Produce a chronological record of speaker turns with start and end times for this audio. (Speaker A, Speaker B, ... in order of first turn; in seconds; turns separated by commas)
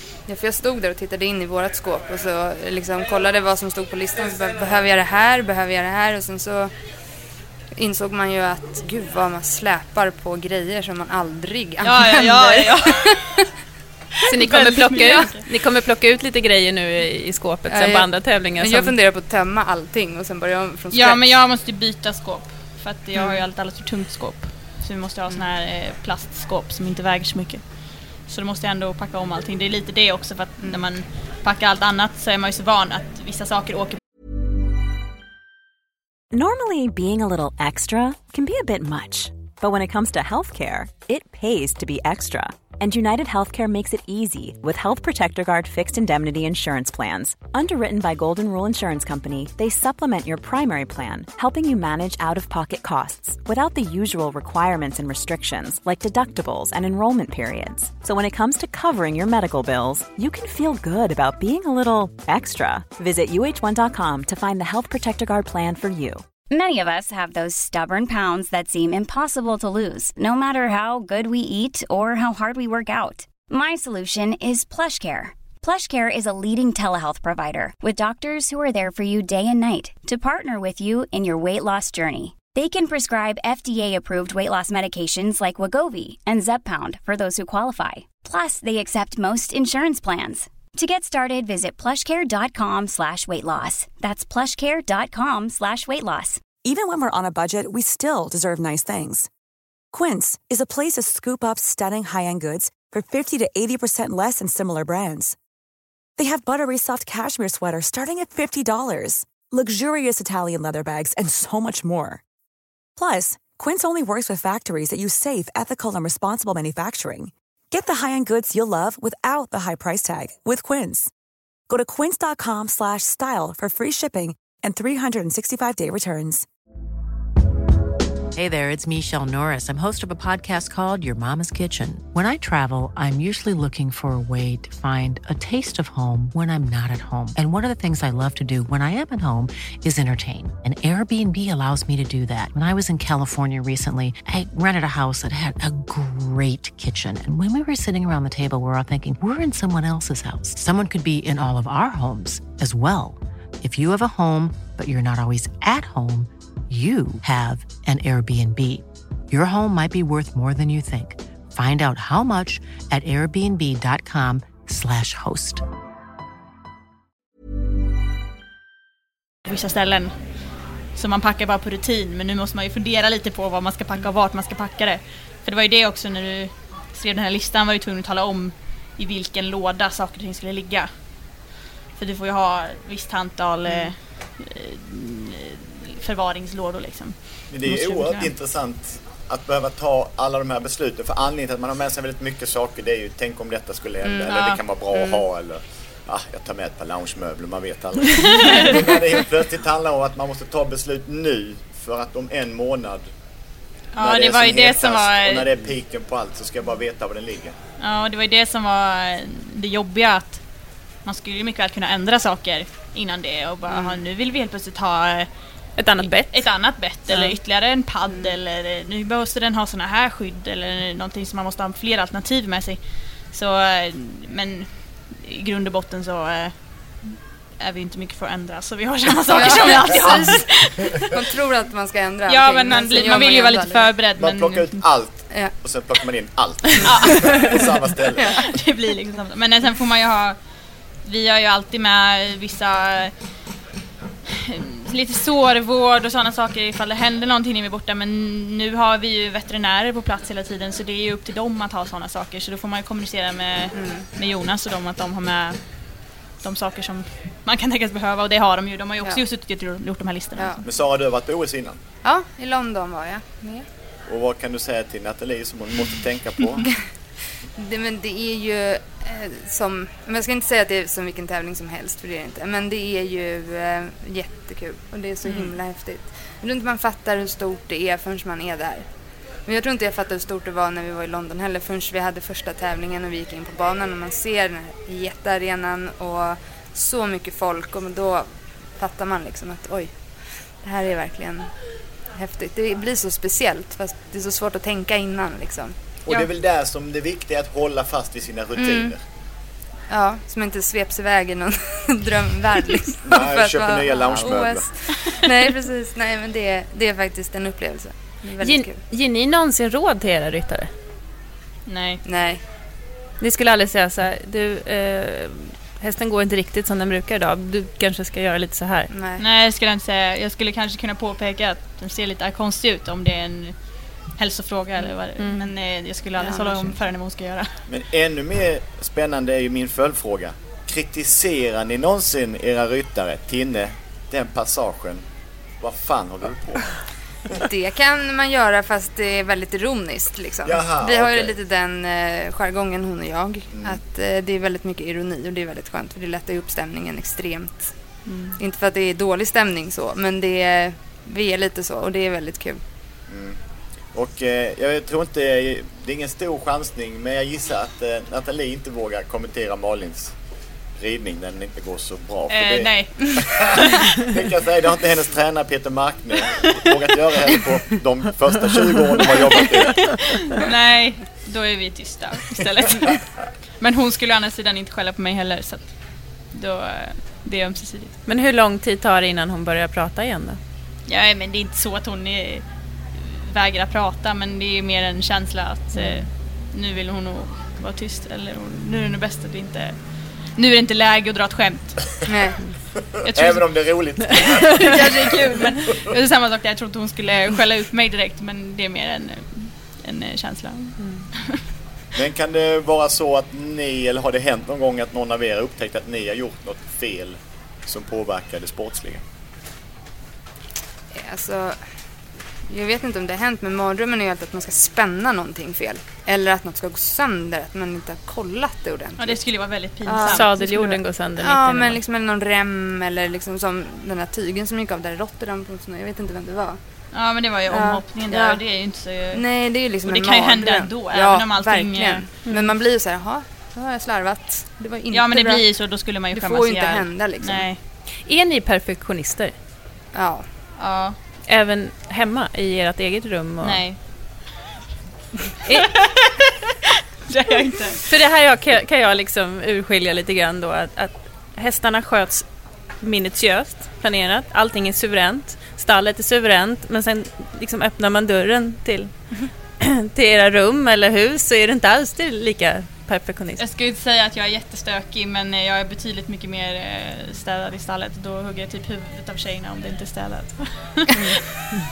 Speaker A: 0.3-6.7, Speaker A: 7.8-13.3, Speaker B: 11.8-13.3, Speaker C: 14.3-18.9, Speaker B: 14.4-15.5, Speaker A: 17.7-21.3, Speaker B: 20.9-34.0, Speaker A: 23.1-23.4, Speaker D: 36.3-66.2, Speaker E: 66.5-96.4, Speaker F: 96.6-99.3, Speaker F: 99.9-105.4, Speaker F: 106.2-112.2, Speaker F: 113.0-121.1, Speaker F: 121.7-126.5, Speaker G: 128.3-165.6, Speaker B: 169.5-170.3, Speaker B: 170.9-180.9, Speaker B: 182.0-188.3, Speaker A: 183.7-183.9, Speaker H: 187.5-203.1, Speaker A: 194.0-194.3, Speaker B: 194.3-194.6, Speaker A: 194.9-195.2, Speaker B: 198.3-198.8, Speaker B: 203.9-205.5, Speaker H: 204.0-207.6, Speaker B: 207.8-210.4, Speaker B: 211.0-215.3, Speaker A: 213.7-214.0, Speaker C: 215.8-216.5, Speaker B: 216.0-231.2, Speaker C: 217.1-217.4, Speaker A: 229.3-233.9, Speaker B: 232.3-234.8, Speaker H: 234.2-238.4, Speaker B: 236.8-237.7, Speaker B: 238.3-240.4, Speaker B: 241.0-243.1, Speaker B: 244.3-255.6, Speaker A: 253.8-254.0, Speaker B: 256.4-260.6, Speaker A: 260.4-260.6, Speaker H: 260.6-261.8, Speaker A: 262.0-263.6, Speaker H: 264.1-266.7, Speaker A: 267.6-278.9, Speaker B: 275.2-275.6, Speaker A: 279.5-288.3, Speaker A: 288.8-291.5, Speaker A: 292.2-295.7, Speaker H: 296.1-299.0, Speaker A: 298.6-298.9, Speaker A: 299.9-308.8, Speaker H: 303.1-304.9, Speaker C: 308.4-310.7, Speaker B: 311.7-312.0, Speaker A: 312.1-312.4, Speaker C: 313.2-318.9, Speaker A: 318.9-319.2, Speaker B: 319.2-323.6, Speaker B: 324.2-327.6, Speaker C: 325.2-325.5, Speaker A: 326.2-326.8, Speaker H: 327.7-335.0, Speaker H: 335.6-336.8, Speaker A: 337.4-347.7, Speaker H: 340.5-341.4, Speaker H: 343.5-343.8, Speaker A: 348.4-352.6, Speaker H: 353.1-353.4, Speaker H: 353.9-360.1, Speaker H: 360.8-369.9, Speaker B: 362.3-363.8, Speaker B: 369.4-373.1, Speaker B: 373.6-375.7, Speaker B: 376.3-377.9, Speaker C: 378.1-380.4, Speaker B: 380.9-382.4, Speaker B: 383.0-389.8, Speaker C: 385.8-386.1, Speaker B: 390.3-392.0, Speaker A: 392.1-392.4, Speaker H: 393.0-394.9, Speaker B: 393.1-393.6, Speaker B: 394.5-401.4, Speaker C: 400.8-401.1, Speaker H: 402.0-409.0, Speaker A: 410.9-411.6, Speaker A: 412.5-419.2, Speaker B: 419.0-420.4, Speaker A: 419.9-426.6, Speaker C: 420.0-421.8, Speaker B: 426.9-429.2, Speaker A: 427.5-428.4, Speaker A: 429.1-435.4, Speaker B: 429.9-432.2, Speaker B: 434.9-437.6, Speaker A: 436.1-437.5, Speaker C: 438.1-439.3, Speaker A: 439.9-440.2, Speaker B: 440.6-441.0, Speaker C: 441.3-443.6, Speaker B: 443.4-443.8, Speaker C: 445.5-445.7, Speaker B: 445.5-446.5, Speaker B: 447.1-447.9, Speaker C: 447.9-452.3, Speaker C: 452.8-458.9, Speaker C: 459.6-463.4, Speaker B: 463.4-471.4, Speaker A: 470.9-471.2